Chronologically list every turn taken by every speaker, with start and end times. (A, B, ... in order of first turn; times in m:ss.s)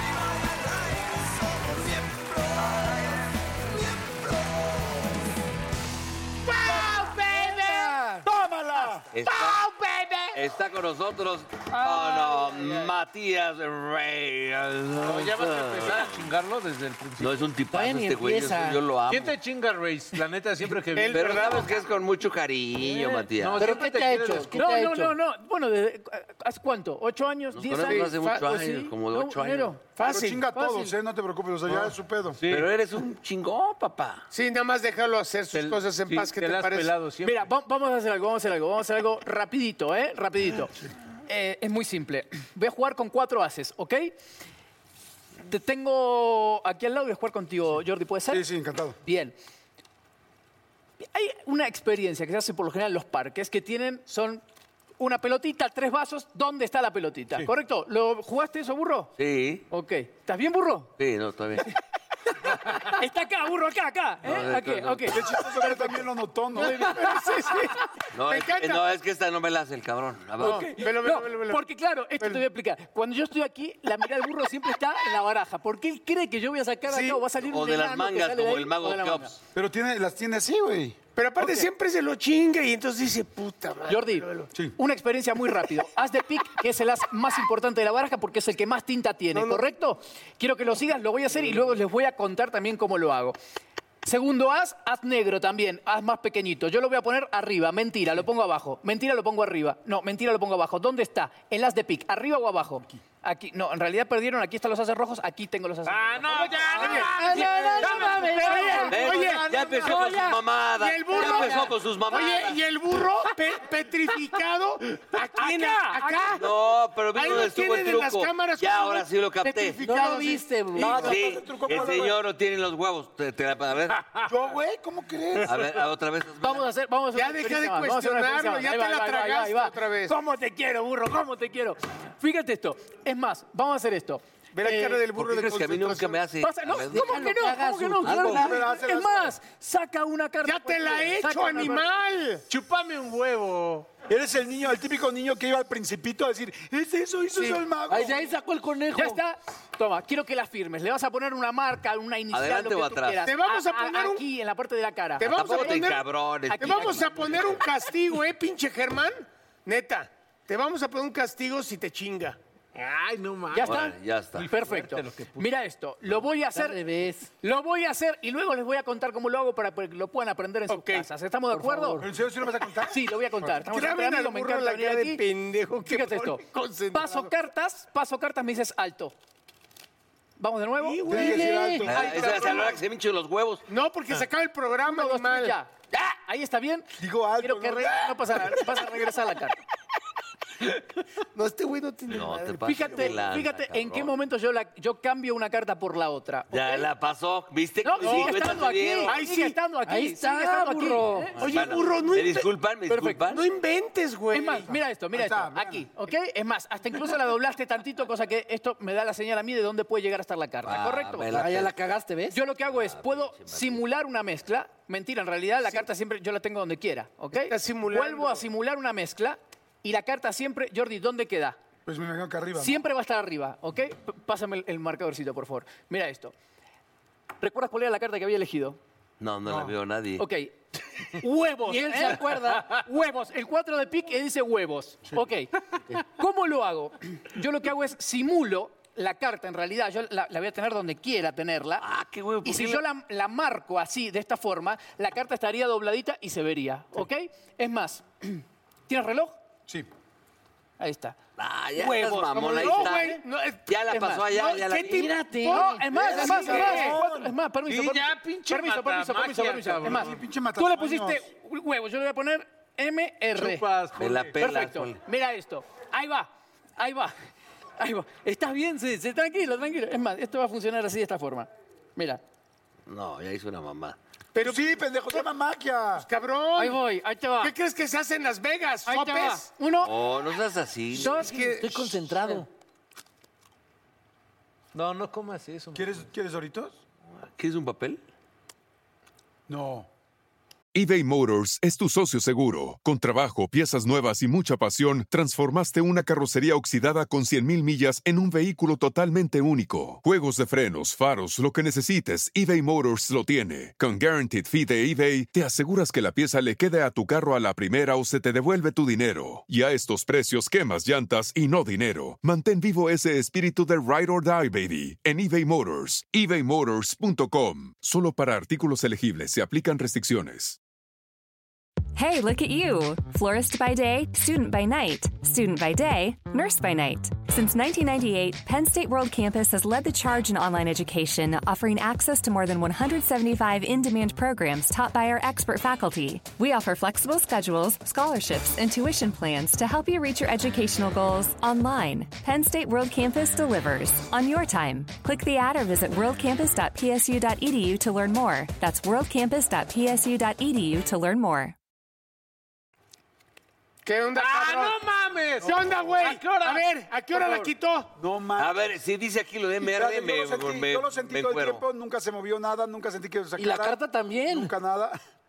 0:06.5-0:07.9 A
0:07.4-0:08.3 B
0:08.2-0:09.1 C
0:09.1-0:09.6 D
0:09.3-0:10.4 A
0:10.4-0:16.2 D
0:15.0-0:17.5 E
0:17.2-0:19.4 D
0:17.7-0:18.8 B
0:19.1-0:21.7 E
0:20.9-0:21.8 A
0:21.1-0:23.7 D
0:23.0-0:24.7 E
0:23.6-0:25.2 B
0:24.5-0:29.9 F
0:27.5-0:29.8 D
0:27.8-0:28.6 A
0:30.0-0:30.5 A
0:30.0-0:32.4 C
0:30.5-0:30.9 F
0:31.7-0:32.7 E
0:32.5-0:34.3 D
0:34.3-0:36.9 A
0:35.5-0:37.5 E
0:37.2-0:40.7 F
0:41.3-0:44.1 F
0:45.5-0:48.4 F
0:48.3-0:49.0 C
0:49.0-0:49.4 F
0:51.0-0:54.4 F
0:55.0-0:59.1 F
0:59.2-0:59.7 D
0:59.7-1:00.9 F
1:01.0-1:01.7 D
1:02.8-1:07.8 F
1:04.2-1:05.2 D
1:05.1-1:07.0 C
1:06.6-1:07.7 A
1:08.1-1:10.7 D
1:08.3-1:08.8 A
1:10.4-1:11.6 A
1:10.4-1:19.4 F
1:16.9-1:17.2 A
1:17.4-1:19.3 D
1:19.5-1:21.7 C
1:21.2-1:24.5 A
1:23.9-1:33.4 F
1:29.3-1:29.6 A
1:34.0-1:49.2 F
1:45.9-1:47.2 E
1:46.7-1:49.6 A
1:46.8-1:50.4 B
1:48.9-1:52.6 D
1:49.6-1:49.9 E
1:50.8-1:56.4 A
1:51.1-1:51.7 B
1:51.2-1:51.5 F
1:55.4-1:56.5 F
1:56.3-1:59.8 D
1:57.1-2:00.5 A
1:59.8-2:01.2 B
2:00.8-2:02.2 C
2:00.8-2:04.0 D
2:04.0-2:04.3 E
2:04.2-2:05.7 C
2:05.4-2:05.7 E
2:05.5-2:06.7 D
2:06.4-2:15.0 F
2:07.1-2:10.2 A
2:14.5-2:16.3 A
2:15.1-2:17.3 D
2:16.4-2:21.9 F
2:16.9-2:18.4 B
2:18.0-2:18.5 D
2:18.2-2:19.3 C
2:20.4-2:22.4 A
2:22.5-2:23.9 E
2:24.1-2:28.2 C
2:27.4-2:27.6 A
2:27.9-2:29.2 B
2:28.9-2:35.9 F
2:32.3-2:33.2 D
2:33.2-2:34.2 A
2:35.2-2:42.4 A
2:35.2-2:37.6 D
2:36.5-2:37.3 F
2:42.8-2:43.8 E
2:43.5-2:46.8 F
2:43.6-2:44.5 D
2:44.4-2:45.5 E
2:46.5-2:47.3 B
2:47.3-2:52.0 F
2:50.7-2:51.1 A
2:51.5-2:52.1 B
2:52.0-2:53.5 C
2:52.9-2:55.2 F
2:53.6-2:57.3 A
2:55.8-2:59.1 F
3:00.4-3:01.0 F
3:00.8-3:02.8 A
3:01.0-3:02.2 C
3:01.1-3:01.9 B
3:01.9-3:03.6 D
3:02.0-3:02.8 F
3:03.7-3:05.6 A
3:04.8-3:06.9 F
3:07.0-3:08.2 C
3:07.4-3:09.6 F
3:11.5-3:12.2 A
3:12.1-3:14.1 D
3:12.3-3:12.9 B
3:12.6-3:16.9 F
3:16.5-3:19.2 D
3:17.8-3:21.6 F
3:18.0-3:18.6 A
3:19.1-3:19.6 A
3:19.9-3:21.4 B
3:21.4-3:23.4 D
3:21.4-3:22.5 A
3:22.9-3:23.3 F
3:23.3-3:24.7 A
3:24.3-3:31.3 F
3:25.1-3:25.9 C
3:30.6-3:31.8 D
3:31.3-3:32.4 B
3:32.3-3:41.6 F
3:32.7-3:33.8 D
3:37.3-3:38.4 A
3:41.9-3:42.8 C
3:42.6-3:46.3 F
3:47.4-3:48.8 F
3:49.2-3:50.3 D
3:49.5-3:49.7 C
3:50.2-3:50.5 F
3:51.2-4:01.8 F
3:51.6-3:52.8 B
4:01.8-4:02.8 D
4:02.4-4:09.4 F
4:10.8-4:11.2 F
4:11.4-4:15.1 D
4:11.8-4:17.0 A
4:12.6-4:13.2 F
4:13.9-4:14.3 F
4:14.8-4:15.9 B
4:15.4-4:23.7 F
4:15.9-4:17.3 C
4:17.7-4:20.1 E
4:19.8-4:21.2 C
4:23.4-4:24.4 E
4:24.0-4:25.0 D
4:24.4-4:27.2 F
4:27.8-4:32.2 F
4:32.9-4:34.0 D
4:34.3-4:35.2 A
4:34.4-4:36.1 C
4:36.0-4:36.8 A
4:36.6-4:37.5 F
4:36.6-4:37.5 B
4:37.4-4:39.5 A
4:38.9-4:39.9 F
4:39.8-4:41.1 D
4:40.9-4:42.4 F
4:41.2-4:42.5 B
4:44.7-4:46.0 E
4:45.8-4:46.8 C
4:47.2-4:48.0 D
4:49.5-4:49.9 C
4:50.7-5:20.6 G
5:22.0-5:51.6 H
5:53.8-5:54.8 A
5:54.2-5:56.7 E
5:55.4-5:57.9 A
5:58.0-5:58.7 C
5:58.4-6:01.6 D
5:59.6-6:05.0 C
6:03.4-6:04.5 B